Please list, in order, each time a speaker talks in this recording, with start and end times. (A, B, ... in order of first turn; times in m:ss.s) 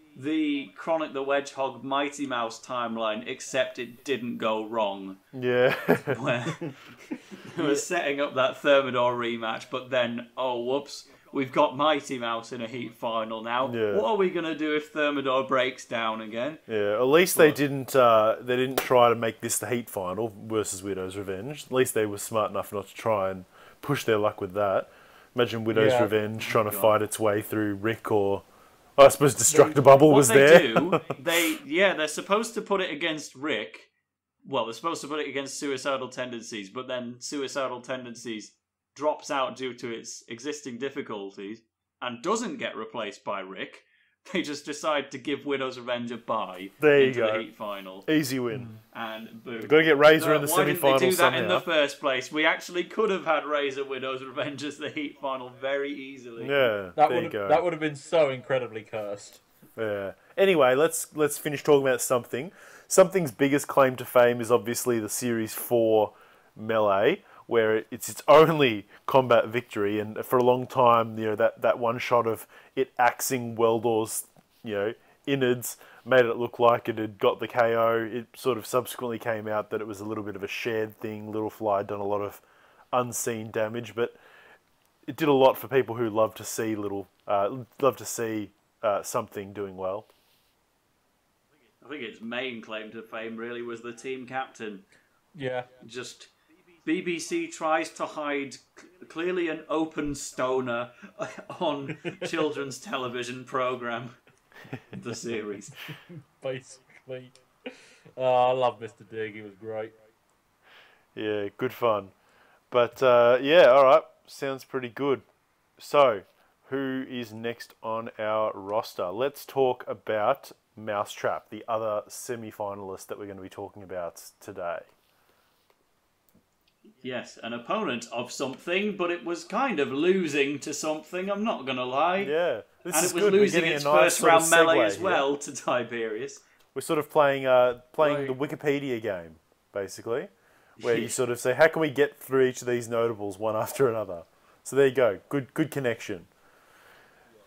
0:00.1-0:05.2 A
0:05.3-0:06.2 B
0:06.1-0:16.6 A
0:07.6-0:07.8 C
0:13.6-0:14.0 B
0:16.7-0:28.4 B
0:17.3-0:17.6 A
0:25.7-0:26.1 C
0:26.4-0:26.9 A
0:29.0-0:31.2 B
0:30.1-0:33.9 A
0:34.4-0:48.1 A
0:46.8-0:47.5 B
0:48.0-0:48.7 B
0:48.5-0:48.8 C
0:48.9-0:56.7 A
0:49.6-0:51.6 B
0:56.4-0:57.6 B
0:57.0-0:59.4 C
0:59.8-1:24.2 B
1:25.1-1:30.1 B
1:31.8-1:34.9 A
1:35.3-1:35.7 C
1:35.8-1:36.3 A
1:36.8-1:44.2 A
1:44.9-1:45.8 A
1:46.1-1:49.9 C
1:51.2-1:52.1 B
1:52.7-1:55.2 B
1:55.8-2:04.9 B
2:07.0-2:12.3 A
2:12.2-2:15.2 B
2:12.9-2:16.4 A
2:16.7-2:26.3 B
2:18.0-2:18.4 A
2:20.8-2:21.2 A